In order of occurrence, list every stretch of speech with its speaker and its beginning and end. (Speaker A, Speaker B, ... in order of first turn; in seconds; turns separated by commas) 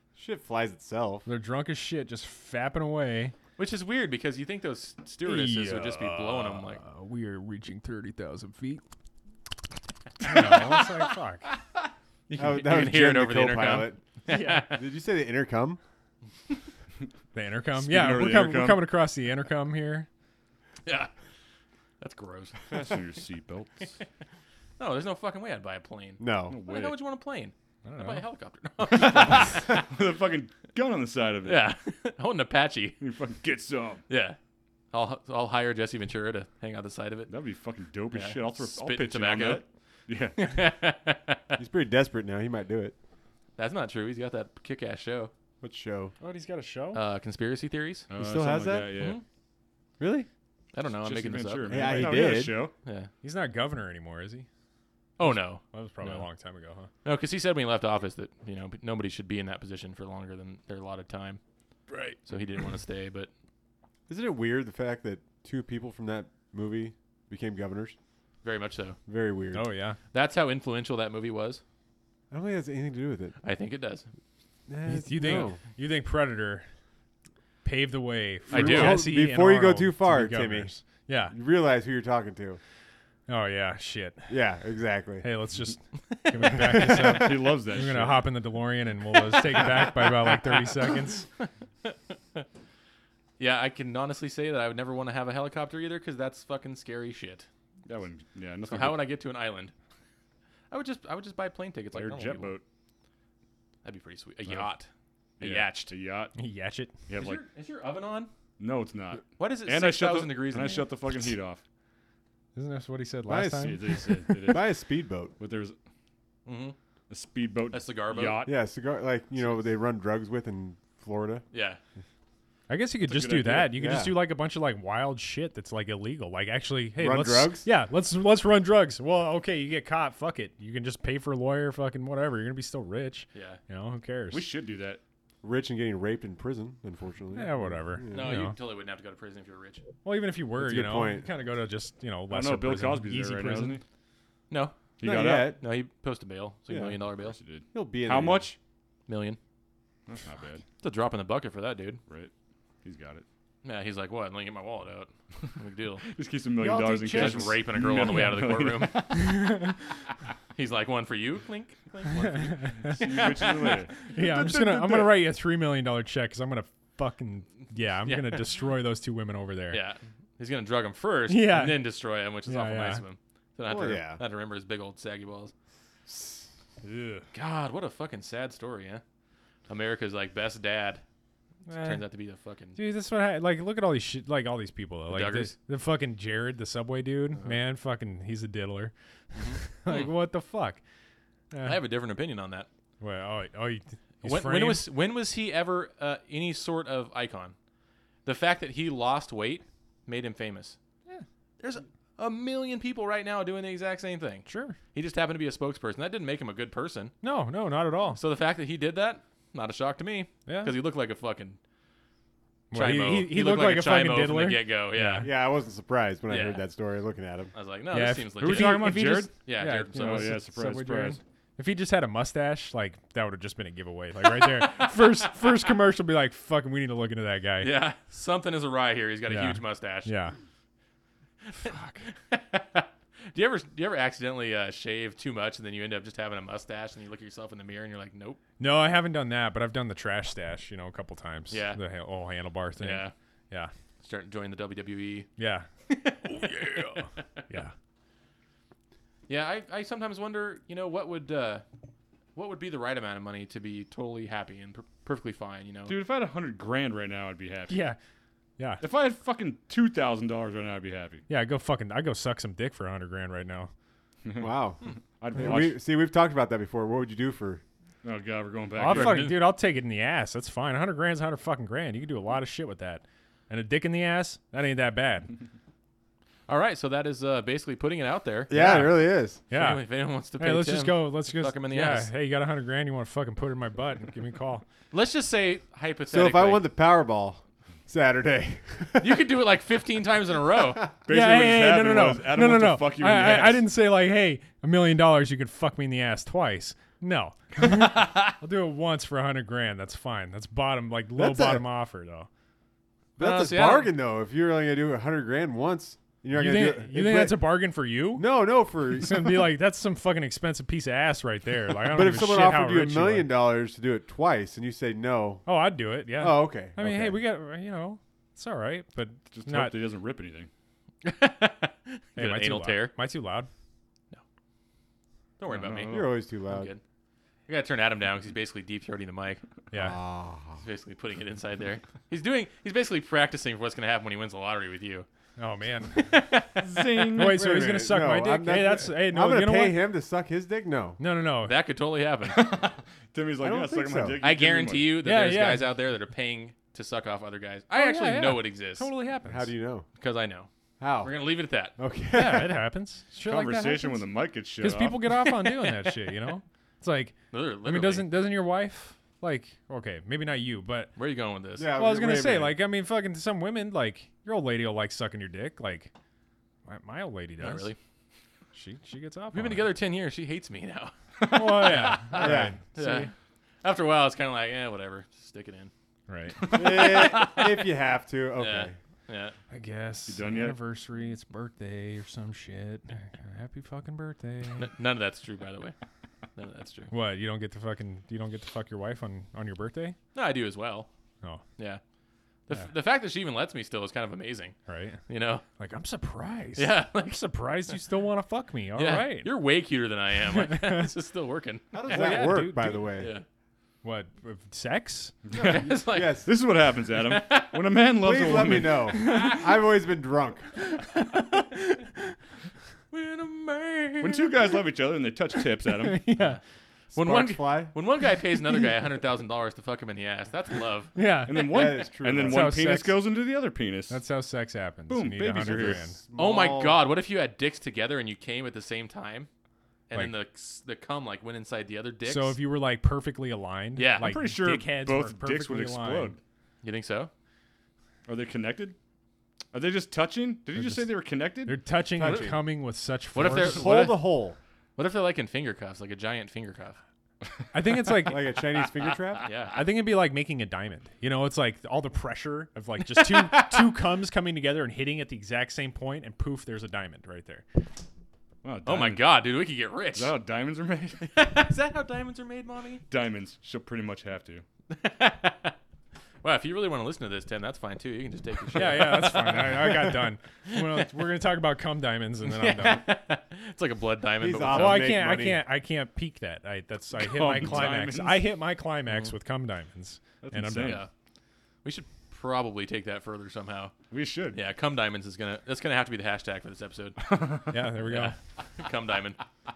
Speaker A: 0.2-1.3, Speaker B: 1.3-3.3, Speaker C: 3.6-6.8, Speaker B: 5.2-8.8, Speaker B: 10.2-11.5, Speaker C: 10.2-11.6, Speaker C: 12.3-14.8, Speaker A: 12.3-14.0, Speaker A: 14.6-15.8, Speaker B: 17.3-20.1, Speaker D: 17.8-18.8, Speaker C: 20.9-21.1, Speaker C: 22.0-22.8, Speaker D: 22.7-23.9, Speaker C: 24.8-29.8, Speaker A: 26.2-26.6, Speaker D: 26.5-27.0, Speaker B: 27.9-28.2, Speaker D: 29.0-31.7, Speaker C: 31.4-33.0, Speaker D: 33.0-34.0, Speaker C: 34.1-34.4, Speaker C: 34.9-37.3, Speaker D: 37.3-40.6, Speaker C: 38.1-39.6, Speaker C: 40.4-41.6, Speaker A: 41.6-43.0, Speaker C: 43.6-45.3, Speaker A: 45.6-46.1, Speaker B: 46.2-47.0, Speaker C: 46.9-48.1, Speaker D: 48.1-49.2, Speaker A: 48.2-49.0, Speaker C: 48.9-49.2, Speaker A: 50.0-50.3, Speaker C: 50.7-52.1, Speaker D: 51.0-52.7, Speaker A: 51.7-52.7, Speaker C: 52.8-53.1, Speaker B: 53.2-54.5, Speaker C: 55.2-56.2, Speaker B: 55.6-56.9, Speaker C: 57.0-61.4, Speaker D: 61.9-62.2, Speaker C: 62.3-63.3, Speaker A: 64.1-68.0, Speaker C: 68.4-69.0, Speaker A: 69.1-69.7, Speaker B: 69.5-70.0, Speaker C: 70.1-71.6, Speaker A: 72.3-73.3, Speaker C: 73.4-74.1, Speaker A: 74.7-75.6, Speaker B: 74.9-76.7, Speaker B: 77.6-81.3, Speaker C: 78.5-79.1, Speaker A: 78.5-80.7, Speaker A: 81.3-82.6, Speaker B: 83.3-84.3, Speaker A: 84.3-85.3, Speaker B: 85.2-91.3, Speaker C: 86.1-86.8, Speaker A: 86.4-87.5, Speaker D: 86.8-88.3, Speaker C: 89.1-92.5, Speaker C: 93.4-97.5, Speaker D: 97.9-99.1, Speaker C: 98.7-99.7, Speaker C: 100.7-102.6, Speaker D: 101.9-102.6, Speaker C: 103.8-104.9, Speaker D: 104.5-104.7, Speaker D: 105.4-106.3, Speaker C: 105.4-105.9, Speaker B: 106.3-107.0, Speaker D: 107.1-107.4, Speaker C: 107.1-108.3, Speaker D: 108.6-111.6, Speaker C: 109.4-110.9, Speaker B: 112.5-113.9, Speaker A: 113.3-115.3, Speaker D: 113.6-114.8, Speaker D: 115.4-115.8, Speaker C: 116.5-116.8, Speaker D: 117.1-118.5, Speaker C: 117.7-118.5, Speaker A: 118.5-121.5, Speaker C: 121.5-121.8, Speaker B: 122.7-134.5, Speaker D: 123.0-123.7, Speaker A: 123.5-124.2, Speaker A: 127.0-127.7, Speaker C: 133.3-133.6, Speaker D: 134.3-135.0, Speaker A: 135.4-138.3, Speaker B: 137.3-138.6, Speaker C: 138.1-139.8, Speaker B: 140.0-143.8, Speaker A: 140.6-141.3, Speaker D: 142.3-143.8, Speaker C: 144.5-147.4, Speaker A: 145.0-145.6, Speaker A: 146.7-147.0, Speaker D: 147.2-148.6, Speaker A: 147.7-148.6, Speaker C: 149.1-149.4, Speaker D: 150.1-150.6, Speaker C: 150.8-152.0, Speaker D: 152.8-153.2, Speaker C: 153.6-156.1, Speaker D: 156.1-159.7, Speaker B: 156.6-158.3, Speaker C: 157.1-159.1, Speaker B: 159.1-159.8, Speaker C: 160.6-163.8, Speaker B: 162.2-169.8, Speaker D: 162.8-165.2, Speaker C: 168.1-168.4, Speaker C: 169.7-175.5, Speaker B: 171.3-171.9, Speaker B: 172.5-173.0, Speaker A: 173.7-174.2, Speaker A: 176.1-176.4, Speaker D: 176.8-177.3, Speaker C: 177.3-179.0, Speaker C: 179.7-181.0, Speaker B: 181.7-182.0, Speaker C: 181.8-182.8, Speaker B: 182.8-188.9, Speaker C: 185.1-185.5, Speaker C: 189.3-190.1, Speaker B: 189.6-190.8, Speaker B: 191.5-191.8, Speaker C: 191.6-192.7, Speaker B: 193.0-194.9, Speaker C: 194.2-197.6, Speaker C: 198.2-200.8, Speaker C: 201.6-207.1, Speaker B: 204.5-204.8, Speaker B: 207.2-208.2, Speaker C: 208.2-211.6, Speaker B: 210.5-210.8, Speaker B: 212.7-215.3, Speaker C: 212.7-215.3, Speaker A: 215.2-217.5, Speaker C: 216.3-216.6, Speaker C: 217.5-220.4, Speaker B: 217.9-227.7, Speaker D: 218.4-219.3, Speaker D: 219.9-221.2, Speaker C: 224.4-224.9, Speaker C: 227.6-230.1, Speaker B: 229.3-230.3, Speaker C: 231.5-238.4, Speaker B: 231.6-232.0, Speaker B: 238.6-243.7, Speaker C: 241.5-241.8, Speaker C: 242.8-243.1, Speaker C: 244.0-245.3, Speaker B: 245.4-245.7, Speaker C: 245.9-247.1, Speaker B: 246.3-247.7, Speaker C: 249.3-251.6, Speaker C: 252.3-255.9, Speaker D: 255.9-257.8, Speaker B: 257.7-258.0, Speaker D: 258.8-261.2, Speaker B: 261.3-263.7, Speaker D: 264.2-264.5, Speaker A: 264.4-264.8, Speaker D: 265.2-265.8, Speaker A: 265.4-267.6, Speaker D: 268.0-269.4, Speaker B: 268.8-275.3, Speaker C: 268.8-269.4, Speaker C: 276.5-278.5, Speaker A: 278.5-279.4, Speaker B: 278.5-279.8, Speaker C: 279.5-282.1, Speaker B: 280.4-284.6, Speaker C: 284.9-286.7, Speaker A: 286.1-289.3, Speaker C: 289.0-290.9, Speaker D: 291.1-293.7, Speaker B: 291.1-302.3, Speaker A: 301.2-301.6, Speaker C: 303.2-303.9, Speaker A: 303.2-307.6, Speaker B: 306.3-308.3, Speaker A: 308.2-309.5, Speaker B: 308.9-313.3, Speaker A: 311.9-315.5, Speaker B: 315.5-319.7, Speaker A: 316.2-317.2, Speaker D: 319.3-320.5, Speaker C: 321.0-322.9, Speaker B: 322.2-323.5, Speaker C: 325.4-326.8, Speaker D: 325.5-326.2, Speaker A: 325.9-326.7, Speaker C: 327.5-329.4, Speaker B: 329.7-330.0, Speaker A: 329.7-330.6, Speaker C: 330.6-335.1, Speaker B: 335.4-336.3, Speaker C: 335.9-337.1, Speaker D: 336.6-337.4, Speaker B: 337.1-339.8, Speaker A: 337.2-341.0, Speaker B: 341.0-341.6, Speaker C: 341.4-342.6, Speaker D: 342.3-345.0, Speaker A: 343.4-344.2, Speaker C: 344.2-348.9, Speaker B: 345.0-345.7, Speaker B: 347.7-349.5, Speaker A: 349.3-349.9, Speaker C: 350.0-350.5, Speaker A: 350.8-351.1, Speaker C: 351.0-351.8, Speaker A: 351.8-352.7, Speaker B: 352.1-354.1, Speaker D: 353.2-355.0, Speaker B: 354.6-360.9, Speaker C: 355.1-356.0, Speaker C: 357.3-358.3, Speaker C: 361.0-361.7, Speaker A: 361.6-362.6, Speaker B: 361.8-365.9, Speaker B: 366.7-367.7, Speaker C: 367.4-367.8, Speaker B: 368.5-369.7, Speaker C: 369.3-373.1, Speaker B: 371.3-373.1, Speaker A: 372.1-372.6, Speaker C: 373.6-375.7, Speaker B: 376.1-376.6, Speaker A: 376.5-378.8, Speaker C: 376.9-377.4, Speaker C: 378.4-379.4, Speaker B: 379.5-384.7, Speaker D: 380.1-380.6, Speaker C: 384.6-385.8, Speaker C: 386.4-386.9, Speaker B: 386.9-390.0, Speaker C: 390.1-390.9, Speaker C: 392.5-394.6, Speaker B: 394.7-395.0, Speaker C: 395.1-395.4, Speaker B: 395.6-399.3, Speaker C: 396.6-397.3, Speaker C: 398.8-402.4, Speaker B: 400.3-400.9, Speaker A: 401.7-403.1, Speaker B: 401.9-402.9, Speaker C: 402.9-403.2, Speaker B: 403.8-405.2, Speaker D: 405.3-409.0, Speaker C: 405.3-406.3, Speaker A: 405.7-406.3, Speaker C: 406.9-407.6, Speaker A: 408.0-410.5, Speaker C: 409.0-409.4, Speaker B: 411.0-411.6, Speaker C: 412.9-414.4, Speaker D: 414.0-416.0, Speaker B: 415.8-416.4, Speaker A: 416.9-417.7, Speaker C: 416.9-420.9, Speaker B: 420.9-423.0, Speaker D: 421.3-424.0, Speaker A: 421.4-422.6, Speaker B: 423.9-426.0, Speaker D: 424.9-425.9, Speaker A: 425.5-426.8, Speaker C: 426.1-429.3, Speaker C: 429.9-432.4, Speaker B: 432.1-436.2, Speaker C: 433.8-434.2, Speaker D: 434.0-436.2, Speaker C: 436.6-437.1, Speaker D: 438.1-438.8, Speaker D: 439.5-441.6, Speaker B: 440.6-440.8, Speaker B: 441.5-444.0, Speaker A: 441.9-442.4, Speaker C: 443.1-444.1, Speaker A: 443.3-444.4, Speaker C: 444.8-446.8, Speaker B: 447.5-448.4, Speaker A: 448.1-449.3, Speaker C: 448.8-449.6, Speaker B: 449.5-457.4, Speaker C: 452.9-453.7, Speaker D: 458.4-459.2, Speaker C: 458.6-460.1, Speaker D: 459.9-461.1, Speaker C: 461.0-462.8, Speaker D: 462.9-464.4, Speaker C: 464.7-465.6, Speaker C: 466.2-470.9, Speaker B: 468.5-472.9, Speaker C: 472.2-474.9, Speaker A: 474.2-475.4, Speaker B: 474.5-480.8, Speaker D: 477.0-478.2, Speaker D: 480.2-480.8, Speaker C: 480.6-480.9, Speaker C: 481.6-483.7, Speaker D: 483.9-484.4, Speaker C: 484.3-487.0, Speaker D: 487.0-487.5, Speaker B: 487.5-488.2, Speaker C: 487.8-489.2